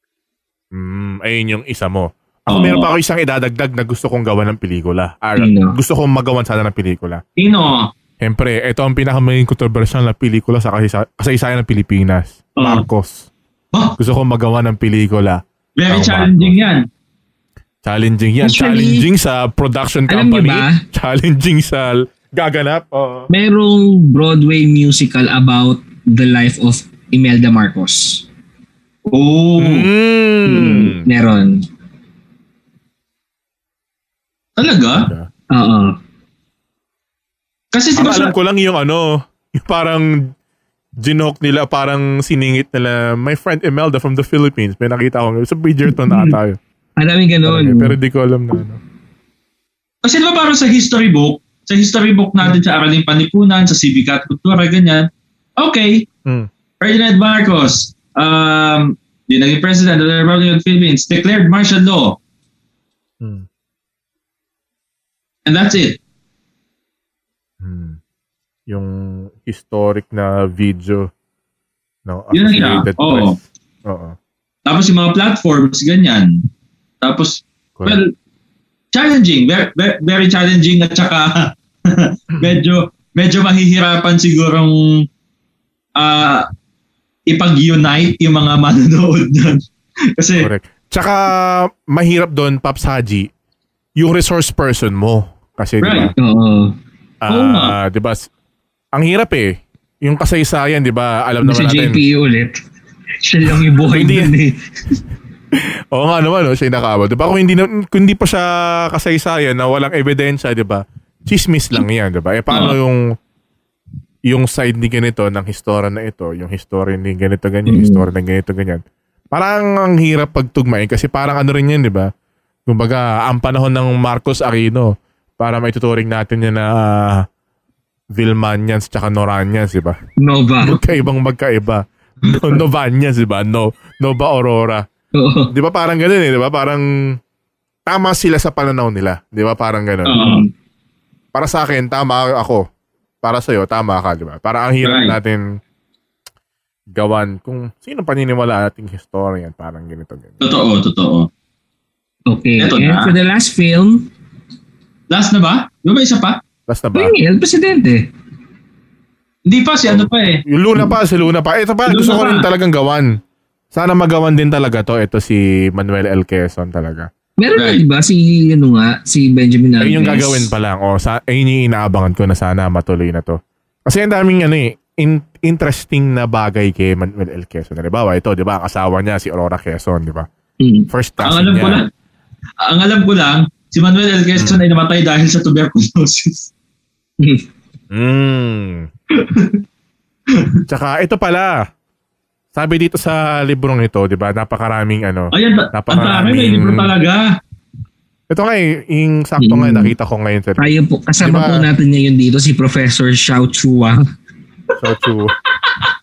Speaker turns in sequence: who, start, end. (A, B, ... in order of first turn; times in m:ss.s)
0:00.7-0:07.2 A
0:02.5-0:02.9 B
0:05.4-0:05.8 C
0:07.4-0:07.9 B
0:08.2-0:13.3 A
0:12.6-0:12.8 B
0:14.0-0:16.6 A
0:15.8-0:16.8 B
0:17.8-0:23.3 A
0:18.4-0:19.1 C
0:20.1-0:20.8 C
0:23.3-0:28.3 C
0:29.1-0:29.9 B
0:29.6-0:31.1 A
0:30.5-0:31.6 C
0:34.6-0:35.1 B
0:35.0-0:35.3 A
0:35.5-0:36.0 C
0:37.7-0:38.3 B
0:38.0-0:40.3 A
0:41.0-0:46.6 A
0:47.0-0:48.0 C
0:47.5-0:48.8 A
0:50.0-0:56.1 B
0:56.8-1:02.2 B
1:03.2-1:03.5 A
1:05.5-1:06.0 B
1:07.6-1:08.0 A
1:08.7-1:11.1 A
1:12.1-1:14.2 A
1:12.3-1:13.4 B
1:14.7-1:16.4 B
1:17.0-1:18.1 B
1:18.9-1:25.0 B
1:26.0-1:26.5 B
1:27.3-1:29.6 B
1:30.2-1:30.5 B
1:30.4-1:33.3 A
1:34.0-1:36.2 A
1:35.8-1:36.1 B
1:36.2-1:36.7 C
1:37.2-1:38.3 A
1:37.3-1:37.8 B
1:38.9-1:42.0 A
1:41.4-1:42.6 C
1:43.2-1:44.6 C
1:43.9-1:44.3 A
1:45.5-1:53.0 A
1:52.5-1:52.8 B
1:54.3-2:02.1 A
1:57.7-1:58.0 C
2:02.7-2:07.3 A
2:08.1-2:10.0 A
2:10.2-2:10.8 C
2:10.6-2:14.8 A
2:15.2-2:15.5 C
2:15.5-2:17.2 A
2:17.9-2:20.3 A
2:20.1-2:20.4 B
2:20.1-2:20.5 C
2:21.3-2:22.6 A
2:23.2-2:25.6 A
2:24.8-2:25.2 B
2:26.9-2:30.4 A
2:30.4-2:31.3 B
2:32.3-2:34.1 C
2:32.6-2:33.1 B
2:35.1-2:36.4 B
2:36.7-2:37.2 A
2:37.0-2:38.1 C
2:39.5-2:40.4 B
2:39.9-2:43.2 A
2:41.9-2:42.5 B
2:43.7-2:47.1 A
2:47.4-2:50.5 C
2:47.6-2:47.8 B
2:49.8-3:00.3 A
3:00.6-3:00.9 C
3:00.9-3:01.8 A
3:01.2-3:01.9 B
3:02.6-3:06.5 B
3:04.4-3:04.6 A
3:07.9-3:08.9 A
3:09.1-3:09.6 B
3:10.3-3:10.6 B
3:10.7-3:11.6 A
3:12.5-3:16.9 A
3:15.3-3:17.3 B
3:18.3-3:20.7 A
3:19.4-3:19.9 C
3:20.6-3:24.0 C
3:21.2-3:21.7 A
3:24.8-3:25.4 A